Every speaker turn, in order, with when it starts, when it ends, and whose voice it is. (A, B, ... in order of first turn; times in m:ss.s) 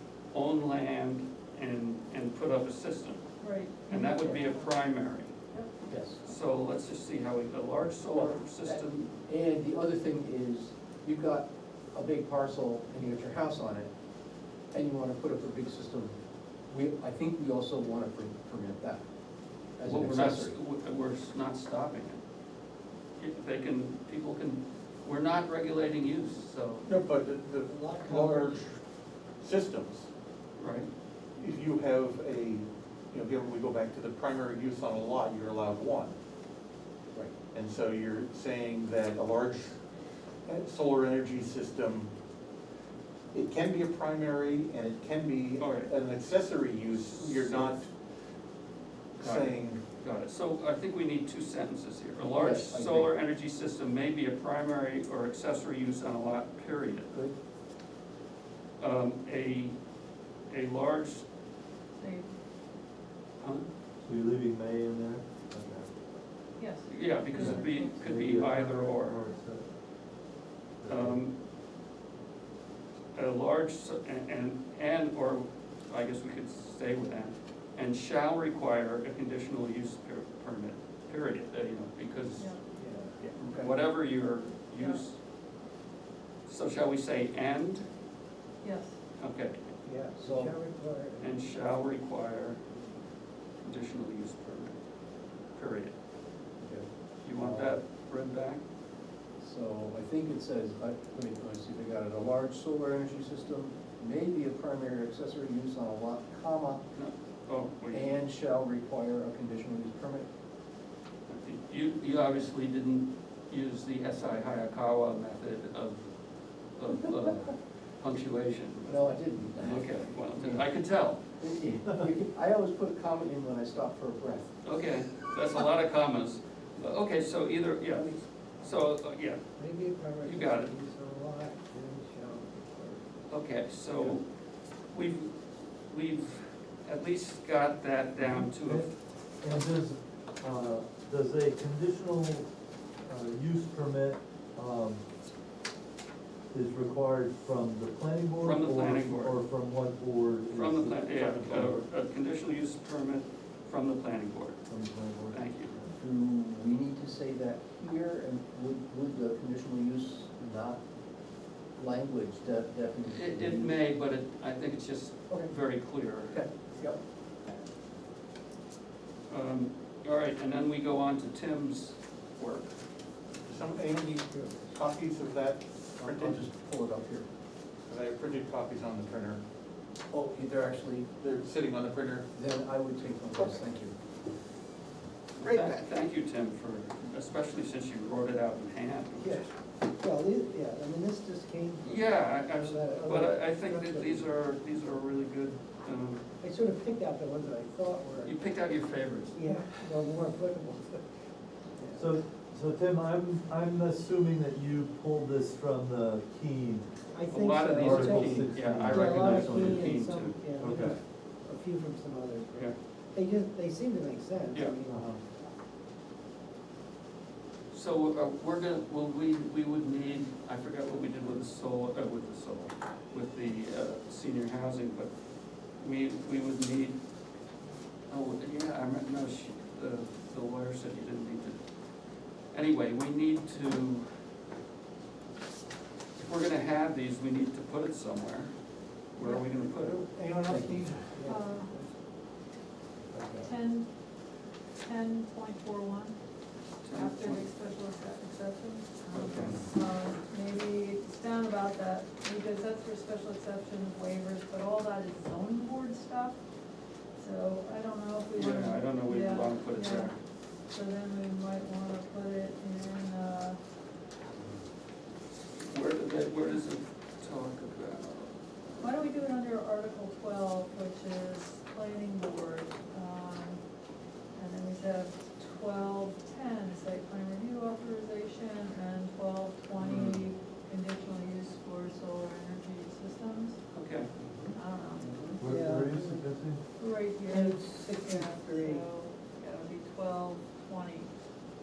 0:00.3-0:03.3 A
0:03.4-0:04.7 B
0:03.9-0:05.4 A
0:04.1-0:04.4 C
0:05.9-0:06.2 C
0:06.2-0:09.1 A
0:08.1-0:13.9 C
0:14.7-0:16.2 C
0:16.7-0:19.0 C
0:19.8-0:20.5 C
0:19.9-0:22.2 A
0:23.2-0:26.9 A
0:26.8-0:28.8 D
0:27.7-0:28.6 E
0:29.4-0:30.1 D
0:30.6-0:30.9 A
0:31.4-0:36.1 D
0:37.5-0:39.8 D
0:40.5-0:42.1 D
0:43.3-0:47.9 D
0:45.6-0:45.9 A
0:47.0-0:47.8 A
0:49.2-0:49.8 D
0:49.2-0:57.2 A
0:52.2-0:53.1 C
0:58.8-0:59.8 A
1:00.5-1:01.3 A
1:02.0-1:02.3 B
1:03.4-1:03.7 A
1:04.0-1:06.1 F
1:06.6-1:08.4 B
1:06.9-1:09.3 A
1:07.3-1:09.7 F
1:10.8-1:11.2 F
1:10.9-1:11.4 A
1:13.1-1:22.6 A
1:22.4-1:22.6 B
1:22.8-1:23.7 E
1:23.2-1:25.2 A
1:24.8-1:25.0 B
1:26.5-1:27.8 A
1:28.6-1:29.0 B
1:29.2-1:29.6 A
1:29.8-1:31.3 E
1:30.2-1:30.6 C
1:31.2-1:32.7 A
1:33.6-1:34.8 A
1:35.6-1:36.0 A
1:36.6-1:36.9 C
1:37.2-1:38.6 A
1:37.4-1:37.8 C
1:39.4-1:46.9 C
1:46.9-1:48.2 A
1:47.9-1:50.3 C
1:51.3-1:56.1 A
1:56.8-2:01.2 A
1:58.9-2:00.7 C
2:01.4-2:04.5 C
2:04.6-2:09.4 A
2:09.6-2:13.0 E
2:10.2-2:10.7 A
2:13.3-2:14.2 A
2:14.9-2:15.4 A
2:15.9-2:18.9 A
2:18.2-2:22.5 F
2:23.0-2:25.0 F
2:26.5-2:31.9 F
2:28.4-2:29.4 A
2:30.5-2:34.6 A
2:34.7-2:35.9 F
2:35.3-2:35.7 A
2:36.0-2:40.8 C
2:41.8-2:43.8 C
2:43.1-2:46.4 A
2:46.3-2:47.0 C
2:49.3-2:52.7 A
2:53.4-2:56.4 D
2:54.3-2:54.7 E
2:56.0-2:57.3 C
2:57.9-2:59.4 D
3:00.1-3:01.1 C
3:01.2-3:02.3 D
3:02.3-3:04.0 C
3:05.4-3:09.5 A
3:05.4-3:05.8 C
3:09.2-3:14.3 E
3:11.8-3:16.2 A
3:16.4-3:18.4 E
3:18.2-3:19.4 A
3:19.3-3:21.0 E
3:21.8-3:22.1 E
3:22.0-3:26.9 F
3:27.1-3:35.1 E
3:27.3-3:30.4 A
3:27.7-3:30.0 F
3:30.6-3:31.0 F
3:34.9-3:35.1 F
3:37.7-3:45.1 A
3:45.8-3:47.0 A
3:48.1-3:51.6 A
3:52.5-3:54.1 A
3:56.2-3:58.5 A
3:59.1-4:00.1 A
3:59.2-4:01.9 E
4:00.5-4:01.1 C
4:01.3-4:01.7 B
4:03.1-4:03.5 C
4:03.4-4:03.9 B
4:04.8-4:06.2 B
4:06.8-4:07.5 A
4:06.9-4:16.4 B
4:09.1-4:09.7 A
4:17.2-4:20.2 B
4:18.4-4:20.2 A
4:20.7-4:23.6 B
4:25.6-4:29.0 A
4:28.8-4:33.6 B
4:34.3-4:43.6 B
4:39.8-4:40.2 A
4:43.7-4:45.4 A
4:44.5-4:45.1 B
4:45.4-4:46.6 F
4:45.4-4:46.2 E
4:46.8-4:51.1 B
4:47.3-4:48.8 E